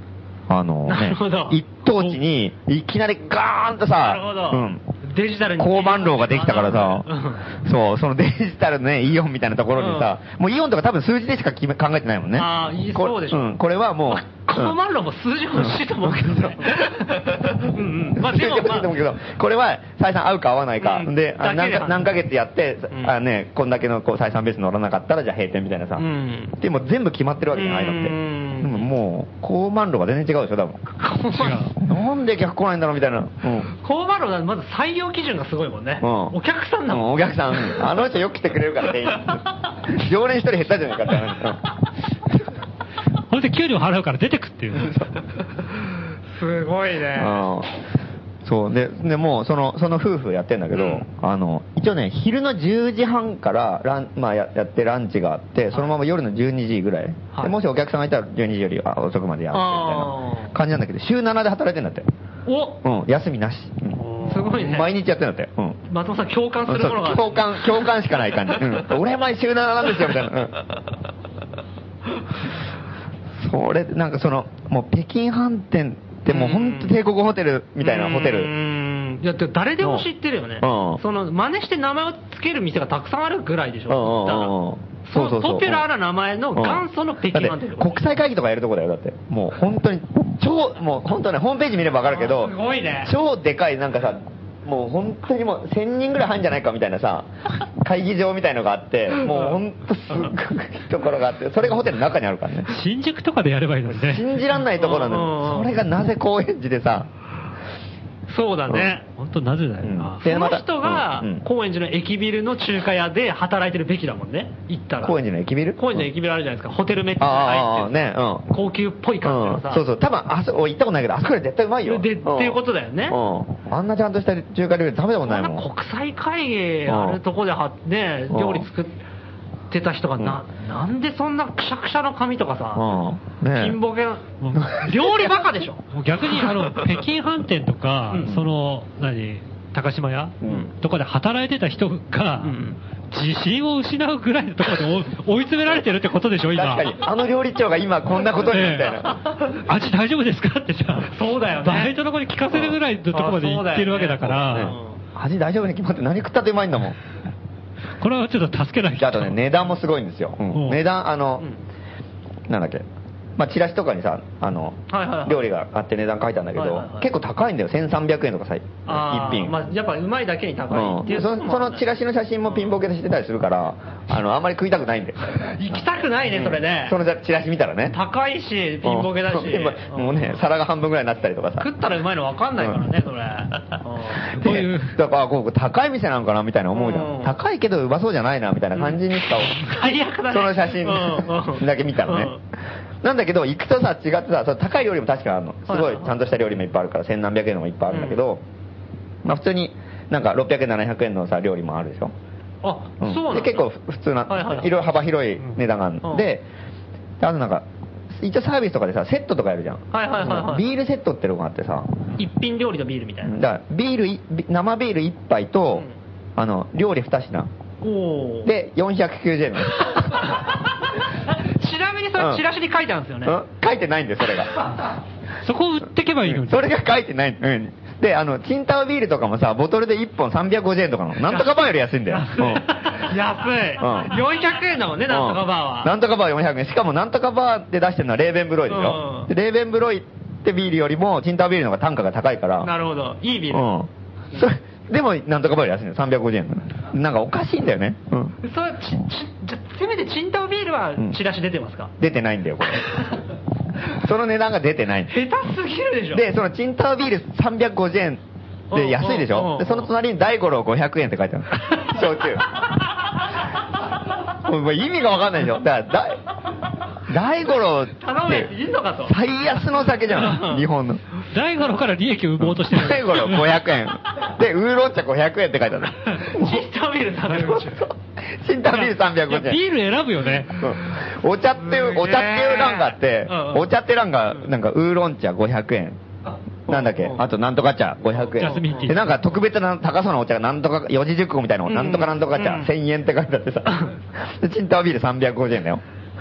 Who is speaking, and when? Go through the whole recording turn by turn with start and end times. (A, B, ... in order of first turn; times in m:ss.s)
0:00.5-0:04.8 A
0:00.9-0:01.6 B
0:04.0-0:07.4 B
0:05.6-0:14.8 A
0:09.8-0:10.1 B
0:12.4-0:13.6 B
0:14.1-0:18.9 B
0:15.5-0:17.6 A
0:18.1-0:26.0 A
0:20.8-0:22.1 B
0:22.9-0:23.2 B
0:26.0-0:26.6 B
0:26.6-0:30.8 A
0:27.5-0:28.9 B
0:31.0-0:31.6 B
0:31.3-0:31.8 C
0:31.8-0:33.7 A
0:33.7-0:37.8 B
0:36.0-0:36.4 A
0:36.9-0:41.7 A
0:43.3-0:45.0 C
0:44.8-0:45.1 A
0:46.3-0:47.4 B
0:47.2-0:47.8 A
0:48.4-1:02.1 A
0:50.7-0:51.1 B
0:59.5-1:00.5 B
1:02.5-1:02.8 B
1:02.8-1:05.8 A
1:04.0-1:04.5 C
1:04.2-1:04.9 B
1:05.9-1:07.9 B
1:06.7-1:10.6 A
1:13.4-1:18.5 A
1:16.3-1:17.0 B
1:17.8-1:28.1 B
1:19.8-1:20.1 A
1:20.6-1:21.0 A
1:23.9-1:25.9 A
1:26.5-1:42.7 A
1:32.0-1:33.1 B
1:39.2-1:39.6 B
1:42.7-1:44.4 C
1:43.9-1:47.1 A
1:44.8-1:45.7 B
1:48.3-1:49.0 B
1:49.1-1:50.2 C
1:49.8-1:51.5 A
1:50.2-1:55.2 B
1:55.0-1:56.1 A
1:55.8-1:58.0 B
1:57.2-1:58.5 A
1:58.5-1:59.8 B
1:59.2-2:05.7 A
2:01.8-2:03.2 B
2:05.3-2:09.0 B
2:06.9-2:07.2 A
2:08.3-2:08.7 A
2:09.7-2:12.9 B
2:12.8-2:13.8 A
2:13.5-2:15.8 B
2:14.4-2:14.9 C
2:14.6-2:15.3 A
2:15.9-2:22.6 C
2:18.2-2:18.5 A
2:20.4-2:20.7 A
2:22.4-2:22.8 B
2:23.1-2:27.0 C
2:26.5-2:29.2 A
2:28.5-2:29.0 C
2:29.6-2:34.7 C
2:31.1-2:31.9 B
2:32.5-2:32.8 A
2:33.1-2:35.0 B
2:34.3-2:37.0 A
2:38.0-2:39.4 C
2:39.0-2:41.5 A
2:40.5-2:40.8 C
2:42.5-2:42.8 A
2:43.4-2:49.6 A
2:44.9-2:45.4 B
2:46.6-2:47.1 B
2:48.9-2:51.9 B
2:50.7-2:58.0 A
2:55.4-2:57.0 B
2:57.8-3:00.4 B
2:58.8-3:01.7 A
3:01.6-3:04.6 B
3:04.3-3:12.4 A
3:04.4-3:05.0 C
3:06.7-3:07.4 B
3:08.8-3:12.4 B
3:13.0-3:18.4 A
3:15.7-3:16.1 B
3:17.9-3:18.2 B
3:19.2-3:22.1 A
3:22.6-3:23.7 B
3:23.0-3:26.5 A
3:24.3-3:24.7 B
3:26.0-3:26.3 B
3:27.2-3:32.1 A
3:29.9-3:30.6 B
3:32.2-3:33.4 B
3:33.2-3:37.5 A
3:37.8-3:38.5 B
3:38.4-3:40.3 A
3:39.9-3:40.3 B
3:41.2-3:43.4 B
3:42.2-3:42.4 A
3:43.2-3:44.7 A
3:45.4-3:46.7 C
3:46.3-3:52.6 A
3:51.3-3:55.9 B
3:53.8-3:54.2 A
3:55.1-4:02.7 A
3:58.7-3:59.3 B
4:02.6-4:03.7 B
4:03.5-4:08.4 A
4:08.4-4:11.9 B
4:12.0-4:13.0 A
4:13.9-4:15.1 A
4:15.1-4:16.3 B
4:16.1-4:22.7 A
4:18.7-4:19.9 B
4:24.3-4:26.2 A
4:27.1-4:31.0 A
4:28.0-4:29.3 B
4:30.2-4:30.6 B
4:31.3-4:33.6 C
4:32.4-4:36.6 A
4:36.1-4:37.8 B
4:37.3-4:39.6 A
4:38.7-4:40.7 C
4:40.6-4:46.0 A
4:41.5-4:43.7 B
4:46.3-4:47.2 B
4:46.7-4:55.8 A
4:48.3-4:48.9 B
4:48.4-4:49.2 C
4:51.7-4:52.7 B